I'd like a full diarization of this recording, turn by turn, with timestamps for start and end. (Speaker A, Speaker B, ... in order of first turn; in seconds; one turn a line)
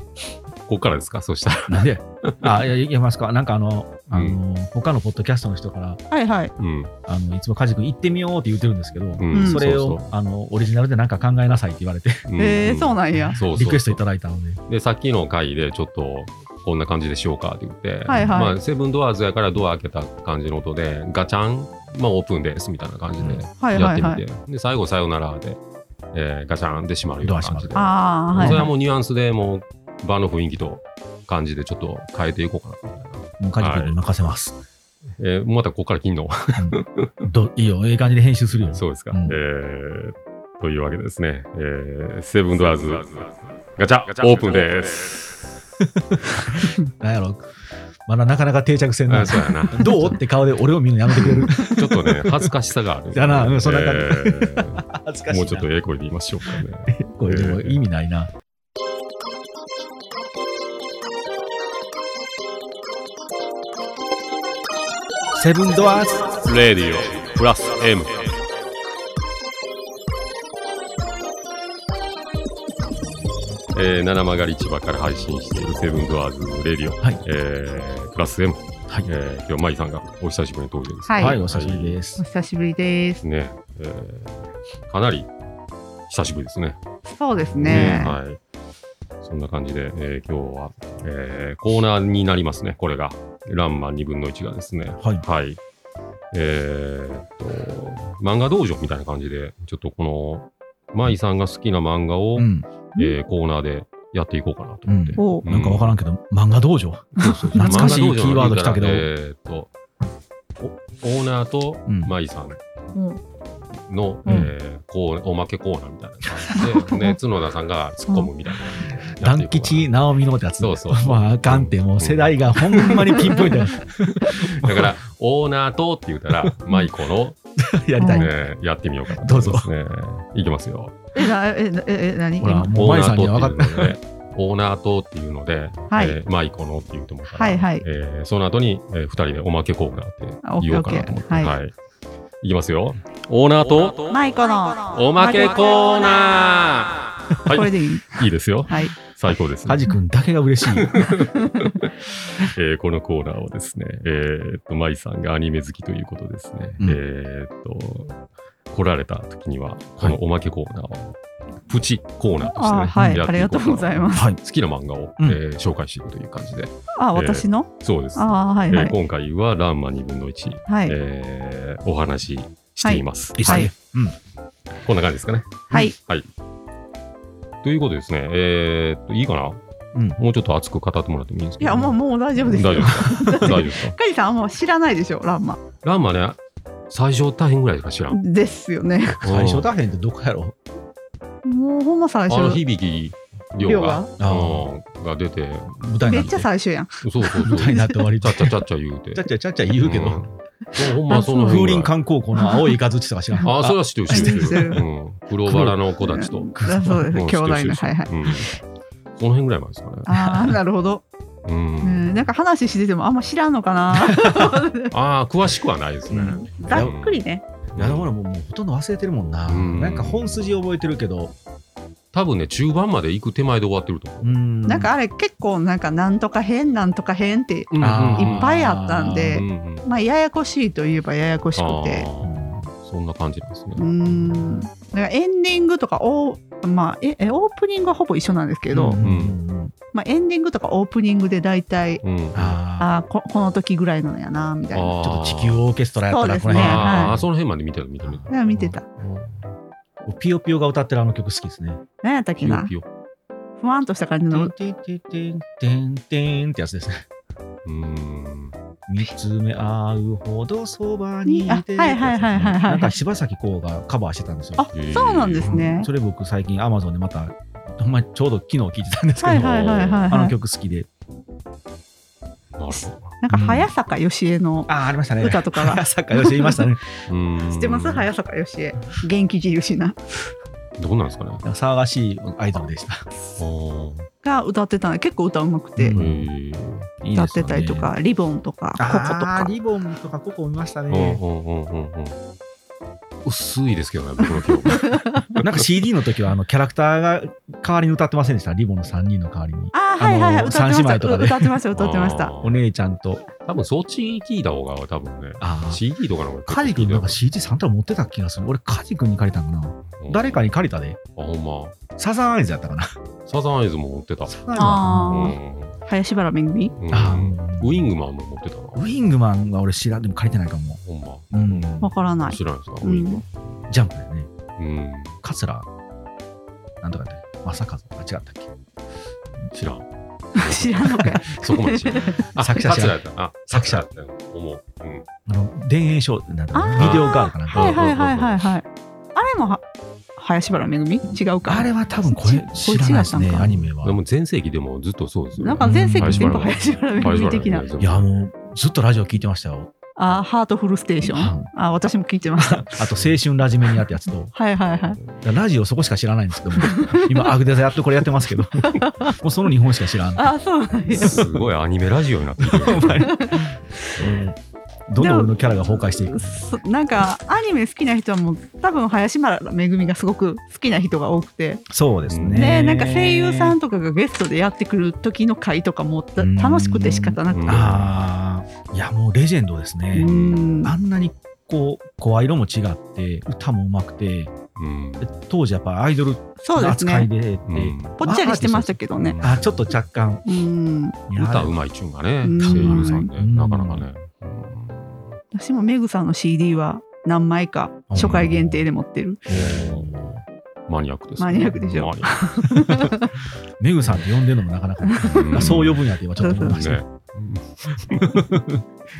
Speaker A: 0.7-2.6
Speaker B: 1.7-6.0
Speaker A: 4.1-4.4
Speaker C: 6.1-6.5
Speaker A: 6.6-6.9
Speaker B: 7.1-12.3
Speaker A: 9.2-10.1
Speaker C: 9.3-9.6
Speaker A: 12.3-14.0
Speaker C: 12.4-13.4
Speaker B: 13.3-14.6
Speaker A: 14.7-25.6
Speaker C: 18.1-18.6
Speaker B: 23.2-23.4
Speaker C: 23.6-24.2
Speaker A: 26.1-34.0
Speaker B: 27.2-27.8
Speaker C: 27.7-28.7
Speaker B: 28.4-28.6
Speaker B: 33.4-34.5
Speaker A: 35.2-37.2
Speaker B: 36.6-39.4
Speaker A: 38.7-45.5
Speaker B: 45.8-47.5
Speaker B: 48.0-52.5
Speaker A: 49.1-50.2
Speaker A: 51.1-57.8
Speaker B: 53.1-55.7
Speaker B: 56.4-58.3
Speaker B: 65.3-66.4
Speaker A: 66.4-68.4
Speaker A: 73.7-82.0
Speaker C: 81.1-81.4
Speaker B: 81.2-82.2
Speaker C: 82.2-83.2
Speaker A: 83.2-85.3
Speaker A: 86.1-86.8
Speaker C: 87.1-88.2
Speaker A: 87.5-88.4
Speaker B: 87.7-88.0
Speaker A: 89.2-95.6
Speaker A: 96.3-106.0
Speaker B: 102.4-102.7
Speaker B: 104.9-109.1
Speaker C: 105.2-105.5
Speaker A: 107.2-109.7
Speaker C: 107.2-108.0
Speaker A: 110.6-112.6
Speaker C: 112.9-113.2
Speaker A: 113.7-119.9
Speaker B: 114.2-114.5
Speaker C: 116.5-117.1
Speaker B: 118.8-124.9
Speaker A: 120.6-123.7
Speaker C: 122.8-123.5
Speaker A: 124.2-127.4
Speaker B: 127.6-128.3
Speaker C: 128.0-128.3
Speaker A: 128.1-131.0
Speaker B: 129.1-129.7
Speaker C: 131.1-132.8
Speaker B: 132.4-134.0
Speaker A: 132.7-141.7
Speaker C: 135.9-136.2
Speaker C: 137.3-137.8
Speaker C: 140.4-141.5
Speaker A: 142.4-144.3
Speaker C: 144.1-145.8
Speaker A: 144.8-149.9
Speaker C: 147.5-148.9
Speaker B: 149.6-151.1
Speaker A: 150.7-173.7
Speaker C: 151.3-151.7
Speaker C: 162.4-164.3
Speaker B: 162.9-163.2
Speaker C: 166.9-168.9
Speaker C: 170.7-170.9
Speaker C: 172.8-173.7
Speaker B: 173.3-174.1
Speaker A: 174.8-176.3
Speaker C: 175.7-175.9
Speaker A: 177.6-179.6
Speaker B: 179.9-180.2
Speaker A: 180.2-183.9
Speaker C: 181.6-185.6
Speaker A: 185.8-186.4
Speaker A: 186.9-188.2
Speaker C: 188.1-189.2
Speaker A: 189.2-189.7
Speaker B: 189.2-190.6
Speaker C: 191.4-192.6
Speaker A: 192.3-196.3
Speaker C: 193.6-194.1
Speaker B: 194.2-194.7
Speaker B: 195.8-196.5
Speaker C: 196.0-198.0
Speaker A: 197.0-201.9
Speaker B: 197.4-198.6
Speaker B: 199.1-200.2
Speaker C: 200.9-201.7
Speaker B: 201.2-204.8
Speaker C: 202.3-202.7
Speaker A: 203.4-208.5
Speaker C: 204.1-204.8
Speaker B: 205.4-205.8
Speaker C: 206.0-208.5
Speaker B: 206.5-207.1
Speaker A: 209.2-210.5
Speaker C: 210.1-211.0
Speaker A: 211.4-212.3
Speaker C: 211.8-214.9
Speaker B: 213.9-214.6
Speaker A: 214.9-217.2
Speaker B: 216.1-216.9
Speaker C: 216.3-217.4
Speaker A: 217.7-218.1
Speaker B: 217.8-221.3
Speaker A: 219.5-220.4
Speaker A: 222.1-224.4
Speaker B: 224.2-224.9
Speaker C: 224.7-232.1
Speaker A: 227.7-228.5
Speaker B: 227.8-229.4
Speaker A: 229.2-229.8
Speaker A: 231.6-233.9
Speaker B: 232.2-232.7
Speaker C: 233.8-239.0
Speaker B: 238.7-239.7
Speaker A: 239.0-239.3
Speaker C: 239.9-242.0
Speaker A: 242.0-242.6
Speaker B: 242.3-242.9
Speaker C: 242.8-244.9
Speaker A: 244.7-245.6
Speaker B: 245.0-247.3
Speaker C: 246.1-247.2
Speaker A: 246.5-249.5
Speaker B: 248.0-248.3
Speaker C: 248.3-248.8
Speaker B: 250.0-251.8
Speaker C: 252.0-252.7
Speaker A: 252.4-252.8
Speaker C: 253.6-254.5
Speaker B: 254.3-257.0
Speaker A: 257.6-258.6
Speaker B: 258.9-264.7
Speaker C: 261.2-263.0
Speaker C: 264.6-265.9
Speaker A: 264.7-265.6
Speaker B: 265.4-270.9
Speaker C: 269.2-270.3
Speaker A: 269.4-270.1
Speaker A: 272.6-273.1
Speaker C: 272.7-276.6
Speaker B: 273.3-273.7
Speaker B: 274.7-276.8
Speaker A: 277.1-278.1
Speaker C: 277.5-280.0
Speaker A: 280.8-281.4
Speaker B: 281.4-283.1
Speaker A: 283.4-284.1
Speaker C: 284.2-286.0
Speaker B: 285.8-286.3
Speaker A: 285.9-286.9
Speaker B: 287.0-287.9
Speaker C: 287.1-289.5
Speaker B: 288.8-291.2
Speaker A: 290.9-292.2
Speaker A: 293.2-295.6
Speaker C: 294.7-295.3
Speaker B: 295.4-301.6
Speaker C: 299.7-302.3
Speaker A: 301.7-302.6
Speaker B: 302.4-303.2
Speaker A: 303.4-307.2
Speaker B: 305.4-305.8
Speaker B: 306.5-311.0
Speaker A: 310.0-310.4
Speaker A: 311.1-311.8
Speaker B: 312.0-312.9
Speaker A: 313.2-315.8
Speaker B: 314.3-315.2
Speaker C: 314.5-316.7
Speaker A: 316.8-319.0
Speaker B: 316.9-317.9
Speaker B: 318.7-320.8
Speaker A: 320.8-323.5
Speaker B: 321.3-321.9
Speaker C: 321.8-323.2
Speaker B: 323.7-324.3
Speaker A: 324.6-325.2
Speaker B: 325.2-325.7
Speaker B: 326.8-328.5
Speaker A: 329.5-335.0
Speaker C: 330.3-332.2
Speaker B: 332.4-333.9
Speaker B: 335.2-337.8
Speaker C: 336.5-339.6
Speaker A: 336.8-338.4
Speaker C: 340.2-343.7
Speaker B: 341.4-344.0
Speaker A: 343.8-348.1
Speaker C: 345.4-347.7
Speaker B: 345.6-346.5
Speaker B: 347.8-349.7
Speaker C: 349.9-352.8
Speaker B: 351.0-351.5
Speaker B: 352.4-354.3
Speaker C: 354.3-355.0
Speaker B: 355.1-360.3
Speaker C: 356.6-357.3
Speaker C: 358.6-359.1
Speaker C: 360.1-361.2
Speaker B: 360.9-361.4
Speaker A: 360.9-363.2
Speaker B: 362.4-364.4
Speaker C: 362.7-363.4
Speaker B: 364.9-366.3
Speaker C: 365.0-371.6
Speaker B: 371.7-373.6
Speaker A: 372.1-372.5
Speaker C: 372.3-377.6
Speaker B: 376.2-380.1
Speaker A: 377.3-378.0
Speaker C: 379.9-380.7
Speaker A: 380.0-380.5
Speaker B: 380.6-384.3
Speaker A: 384.6-385.1
Speaker B: 385.0-390.2
Speaker C: 386.4-387.1
Speaker A: 387.5-388.1
Speaker C: 388.0-389.2
Speaker A: 388.9-389.6
Speaker C: 390.2-391.0
Speaker B: 391.1-391.5
Speaker A: 391.1-395.2
Speaker C: 392.2-393.1
Speaker B: 392.4-393.9
Speaker C: 395.3-399.2
Speaker B: 397.9-398.6
Speaker A: 398.0-398.3
Speaker B: 399.3-400.2
Speaker A: 399.3-402.8
Speaker C: 401.2-403.1
Speaker B: 403.6-406.8
Speaker C: 404.8-405.5
Speaker A: 405.1-405.9
Speaker C: 406.2-406.6
Speaker A: 406.4-408.3
Speaker B: 407.9-408.6